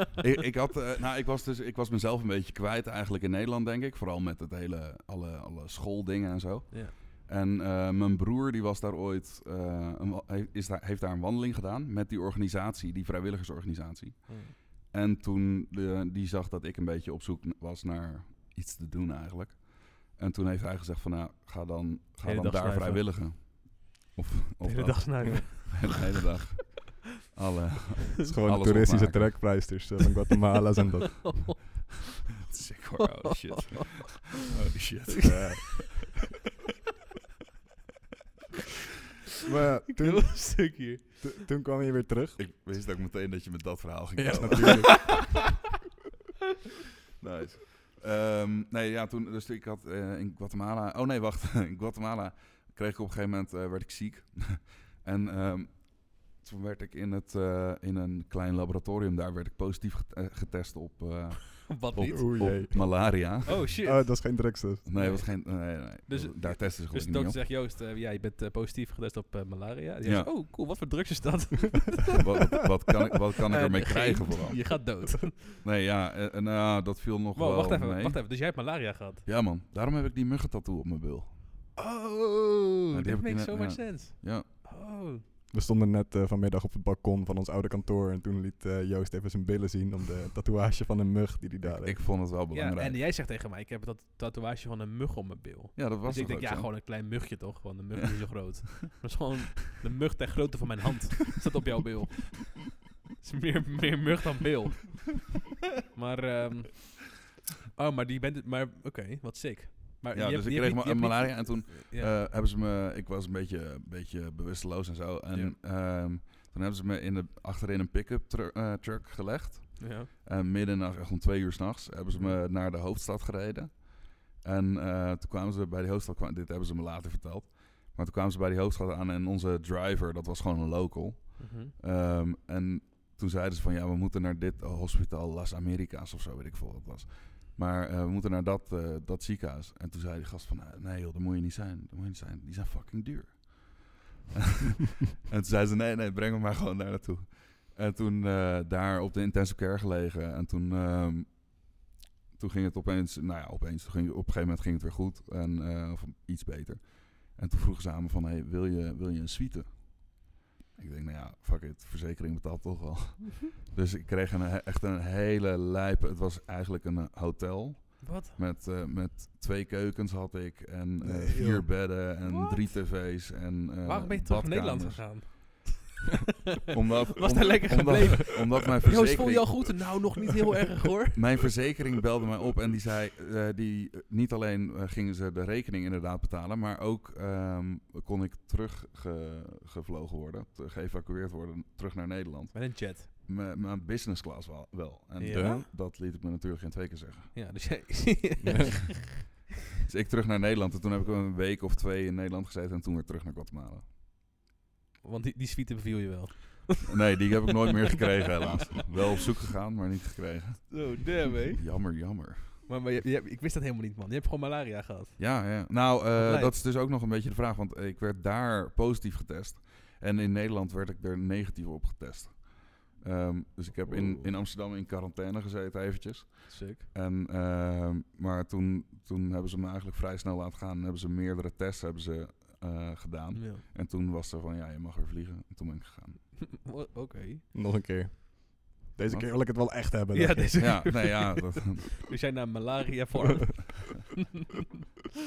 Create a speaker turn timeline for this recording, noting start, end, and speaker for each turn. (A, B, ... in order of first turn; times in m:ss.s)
0:00.2-0:29.6 A
0:14.3-0:14.6 B
0:22.2-0:23.2 B
0:24.6-0:26.0 B
0:28.2-0:31.6 C
0:31.2-0:31.9 B
0:32.5-0:35.9 A
0:33.0-0:33.8 B
0:35.2-0:36.1 C
0:39.5-0:42.4 C
0:40.0-0:41.4 B
0:42.4-0:45.2 A
0:44.2-0:45.4 C
0:44.6-0:44.9 B
0:47.2-1:03.7 A
1:01.7-1:02.9 B
1:02.1-1:04.8 C
1:03.5-1:12.3 B
1:04.8-1:07.4 A
1:10.0-1:10.3 A
1:12.2-1:14.8 A
1:13.5-1:15.6 B
1:15.6-1:18.2 A
1:17.4-1:19.3 B
1:19.2-1:21.4 A
1:21.8-1:25.2 B
1:22.9-1:24.5 A
1:25.5-1:32.0 C
1:31.6-1:33.0 A
1:32.5-1:45.3 B
1:35.8-1:36.7 A
1:45.9-1:52.2 B
1:50.1-2:31.8 A
1:55.3-1:55.6 B
1:59.8-2:00.1 B
2:02.1-2:02.4 B
2:11.4-2:11.7 B
2:32.3-2:55.2 A
2:48.0-2:48.4 B
2:51.0-2:51.7 C
2:52.2-2:53.0 B
2:53.8-2:56.6 B
2:56.7-3:00.2 A
2:57.2-3:01.4 B
3:01.1-3:17.4 A
3:12.5-3:13.1 B
3:15.2-3:15.7 B
3:15.3-3:15.6 C
3:17.3-3:19.4 B
3:18.4-3:18.8 C
3:19.8-3:23.8 A
3:25.0-3:27.0 B
3:26.9-3:32.6 A
3:30.7-3:32.0 B
3:32.7-3:36.6 B
3:35.2-3:56.3 A
3:46.5-3:46.9 B
3:53.3-3:53.6 B
3:56.4-3:57.4 B
3:57.5-4:01.0 C
3:59.1-3:59.4 A
4:00.1-4:04.1 B
4:00.6-4:01.9 A